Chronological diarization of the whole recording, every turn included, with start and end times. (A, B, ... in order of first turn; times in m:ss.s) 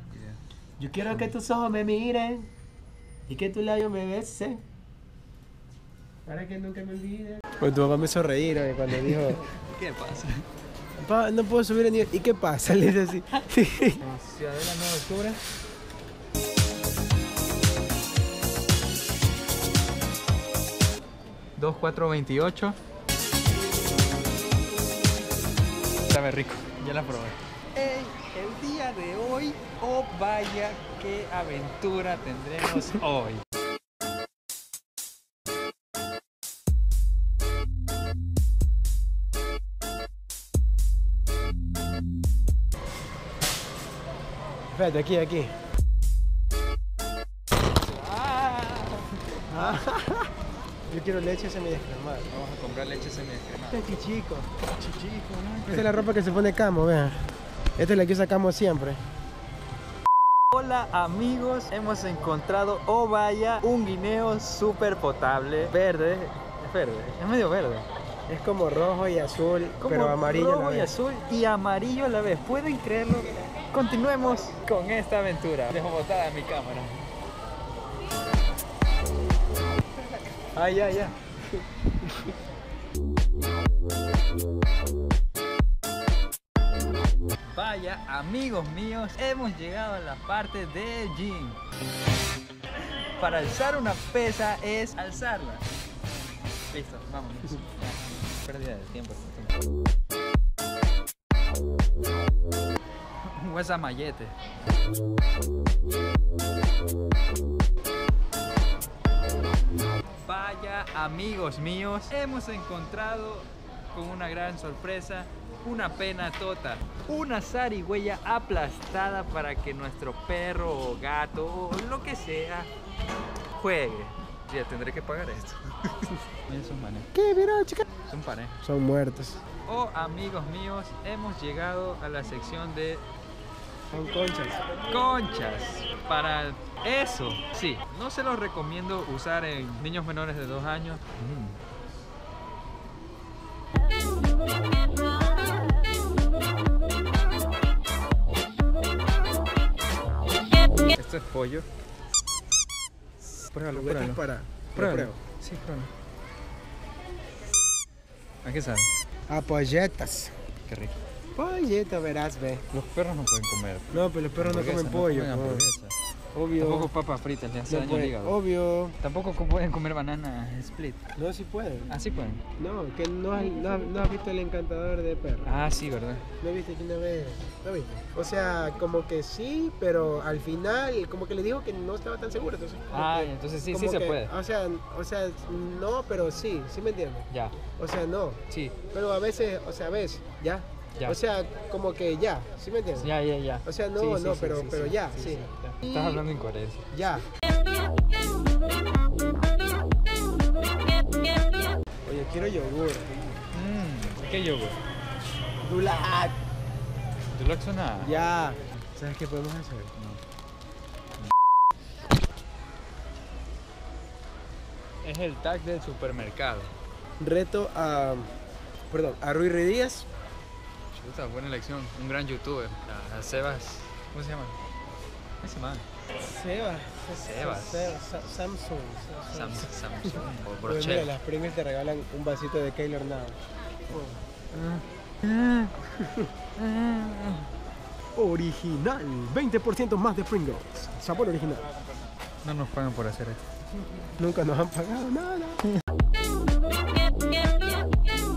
0:00.1-0:00.4 A
0:00.8-0:02.5 B
0:03.3-0:04.6 B
0:06.3-0:09.5 B
0:09.0-0:10.4 A
0:11.0-0:14.0 B
0:14.0-0:15.4 A
0:21.6-0:22.8 A
0:26.1-0:33.4 A
0:44.7-0:45.5 B
0:47.8-0:49.2 A
0:49.5-0:50.3 B
0:50.9-0:52.3 B
0:52.3-0:53.8 A
0:53.7-0:54.5 B
0:54.8-0:56.1 A
0:55.7-0:57.2 B
0:57.8-0:59.0 B
1:00.5-1:07.9 A
1:08.3-1:10.9 B
1:09.8-1:17.1 A
1:20.6-1:21.1 B
1:27.5-1:31.6 A
1:33.2-1:35.7 A
1:36.7-1:39.6 A
1:43.2-1:44.4 A
1:50.2-2:02.7 A
2:03.6-2:07.1 A
2:07.1-2:07.8 B
2:08.0-2:08.6 A
2:08.6-2:09.4 B
2:09.7-2:13.0 A
2:13.9-2:14.7 B
2:14.9-2:21.6 A
2:30.9-2:31.7 A
2:33.4-2:34.2 A
2:33.7-2:35.2 B
2:34.8-2:35.9 A
2:38.4-2:38.9 A
2:39.3-2:40.3 B
2:40.7-2:41.0 A
2:41.4-2:42.6 B
2:42.7-2:46.0 A
2:43.9-2:45.7 B
2:46.3-2:46.9 B
2:46.6-2:48.4 A
2:47.7-2:49.0 B
2:49.0-2:51.0 A
2:51.2-2:51.9 B
2:51.9-2:52.4 A
2:52.6-2:55.5 B
2:55.5-2:56.2 A
2:56.4-3:08.4 B
3:02.9-3:04.3 A
3:07.3-3:07.6 A
3:08.5-3:08.8 A
3:08.9-3:13.1 B
3:13.0-3:16.9 A
3:13.6-3:15.5 B
3:16.9-3:17.3 B
3:22.1-3:23.1 B
3:23.5-3:24.8 A
3:25.6-3:26.4 B
3:27.3-3:28.1 A
3:28.0-3:29.9 B
3:30.0-3:30.2 A
3:35.0-3:36.7 A
3:37.2-3:38.3 B
3:38.9-3:40.1 B
3:40.9-3:44.6 A
3:45.4-3:45.9 A
3:46.2-3:53.4 B
3:47.1-3:48.0 A
3:49.3-3:51.2 A
3:53.9-3:54.2 B
3:54.5-3:55.8 A
3:56.0-3:56.3 B
3:56.6-3:57.5 A
3:58.2-4:01.6 B
4:02.4-4:03.4 A
4:04.2-4:05.7 B